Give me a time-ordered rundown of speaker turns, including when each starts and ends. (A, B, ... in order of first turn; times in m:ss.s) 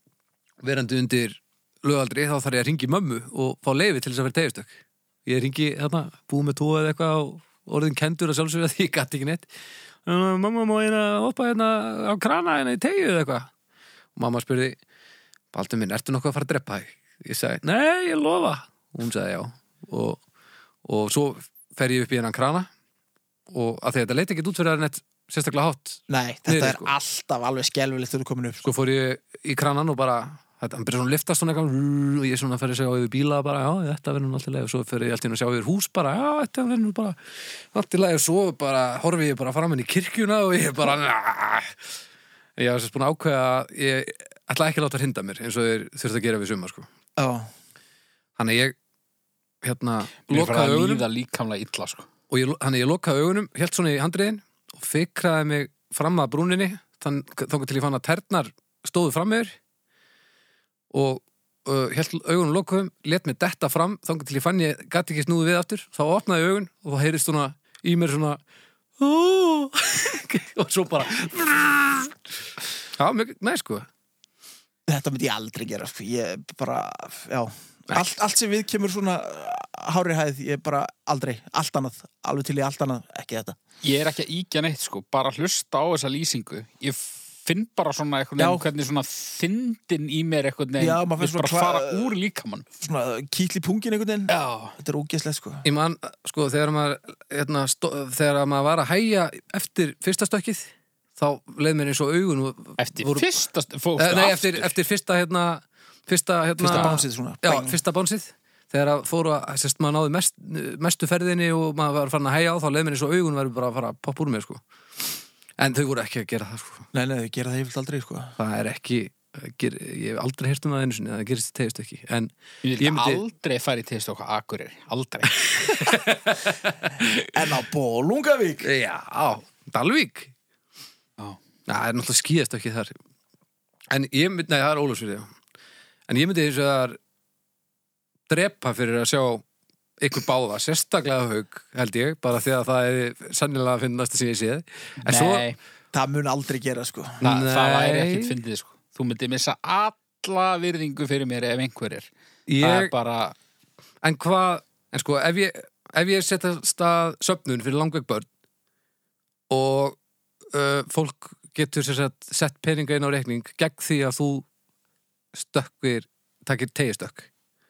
0:00.6-0:04.7 A
0:05.2-0:09.5 A
0:10.0-0:13.5 A
0:14.2-0:14.8 A
0:15.5-0:20.2 A
0:20.8-0:22.7 A
0:23.5-0:26.9 A
0:26.1-0:28.7 B
0:28.6-0:41.8 A
0:42.6-0:46.9 A
0:47.2-0:47.5 B
0:48.4-0:48.7 A
0:49.6-0:51.1 A
0:50.3-0:52.1 C
0:52.3-0:59.5 A
1:00.9-1:08.4 A
1:09.0-1:12.2 A
1:13.0-1:13.9 A
1:14.9-1:23.6 B
1:23.8-1:32.6 C
1:28.4-1:28.6 B
1:30.8-1:32.1 B
1:32.8-1:35.6 B
1:34.3-1:34.8 C
1:35.6-1:43.3 A
1:42.8-1:44.7 C
1:44.0-1:56.9 A
1:46.6-1:47.8 B
1:46.7-1:46.9 C
1:56.9-1:58.4 B
1:58.4-2:03.2 A
2:02.6-2:05.4 C
2:05.4-2:07.4 A
2:07.3-2:08.7 B
2:08.6-2:10.3 A
2:11.7-2:12.9 A
2:13.9-2:15.3 A
2:16.1-2:17.0 A
2:18.3-2:19.4 A
2:20.0-2:25.5 A
2:25.0-2:25.6 C
2:25.9-2:27.2 B
2:27.2-2:28.3 A
2:27.2-2:32.1 C
2:32.5-2:32.9 A
2:32.6-2:33.4 C
2:34.0-2:38.2 A
2:39.5-2:40.0 A
2:40.5-2:44.4 A
2:45.3-2:47.3 A